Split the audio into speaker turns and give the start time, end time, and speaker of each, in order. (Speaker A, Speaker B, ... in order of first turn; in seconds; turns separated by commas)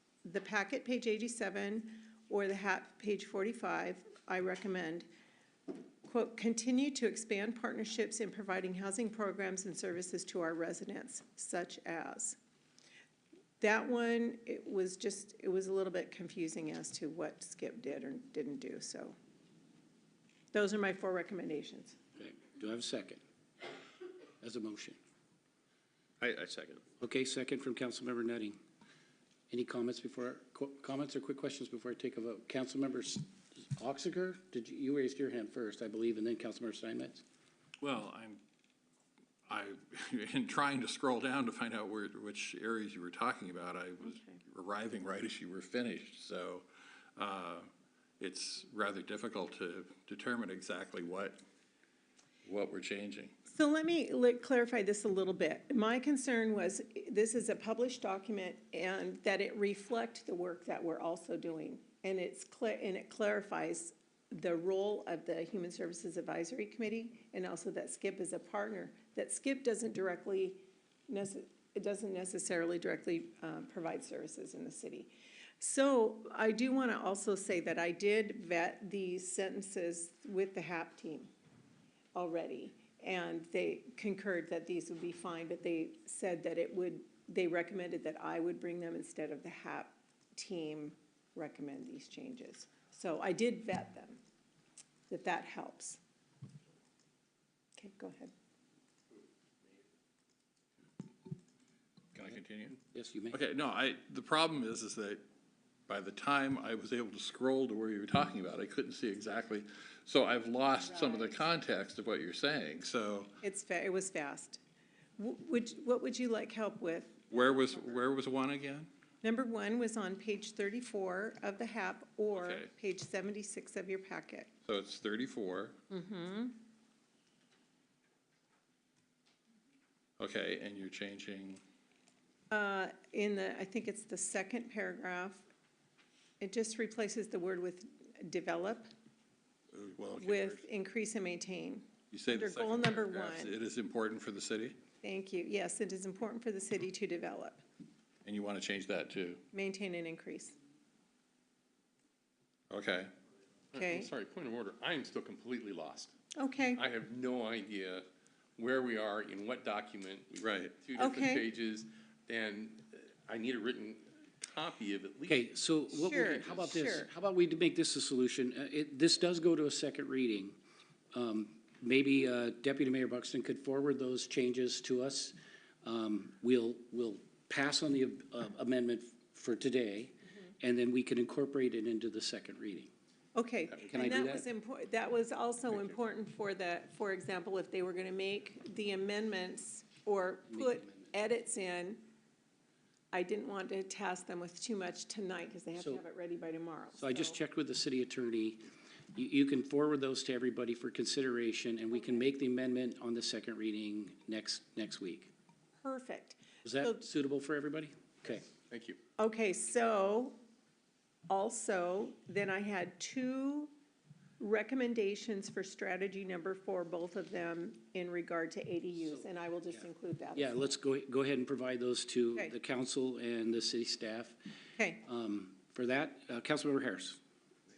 Speaker A: 0.2-5.1, Speaker A: 6.0-12.4, Speaker A: 13.6-19.2, Speaker A: 20.5-22.0, Speaker B: 22.2-23.2, Speaker B: 24.4-25.0, Speaker C: 26.2-26.8, Speaker B: 27.0-28.6, Speaker B: 29.5-37.2, Speaker D: 37.8-38.4, Speaker D: 39.5-47.7, Speaker D: 48.2-51.4, Speaker D: 52.5-53.4, Speaker A: 53.5-81.3, Speaker A: 82.2-94.2, Speaker A: 95.1-96.0, Speaker A: 97.8-98.3, Speaker D: 102.1-102.8, Speaker B: 102.9-103.4, Speaker D: 103.3-105.2, Speaker D: 105.9-113.3, Speaker A: 113.4-114.6, Speaker A: 115.2-117.2, Speaker D: 117.3-118.9, Speaker A: 119.2-124.5, Speaker D: 122.3-122.7, Speaker D: 124.7-125.8, Speaker A: 125.9-126.6, Speaker D: 130.2-131.6, Speaker A: 132.5-135.5, Speaker A: 136.4-138.9, Speaker D: 139.7-140.6, Speaker A: 140.2-143.6, Speaker D: 142.1-144.8, Speaker A: 145.0-147.6, Speaker D: 148.2-149.4, Speaker A: 149.5-150.6, Speaker D: 152.7-153.1, Speaker C: 153.7-156.1, Speaker A: 153.8-154.1, Speaker A: 156.3-156.8, Speaker C: 156.8-158.1, Speaker C: 158.6-166.8, Speaker D: 160.4-160.8, Speaker A: 161.0-161.5, Speaker B: 165.3-170.6, Speaker A: 166.0-167.1, Speaker B: 171.1-182.9, Speaker A: 183.3-192.1, Speaker B: 183.9-184.5, Speaker B: 190.5-191.1, Speaker A: 193.1-197.4, Speaker B: 195.8-196.0, Speaker B: 197.0-198.6, Speaker B: 199.1-205.3, Speaker A: 205.8-207.1, Speaker B: 206.7-208.5, Speaker C: 208.6-209.0, Speaker A: 209.2-210.4, Speaker A: 211.3-213.7, Speaker A: 214.4-220.7, Speaker B: 220.4-224.4, Speaker A: 224.8-225.0, Speaker B: 225.0-227.2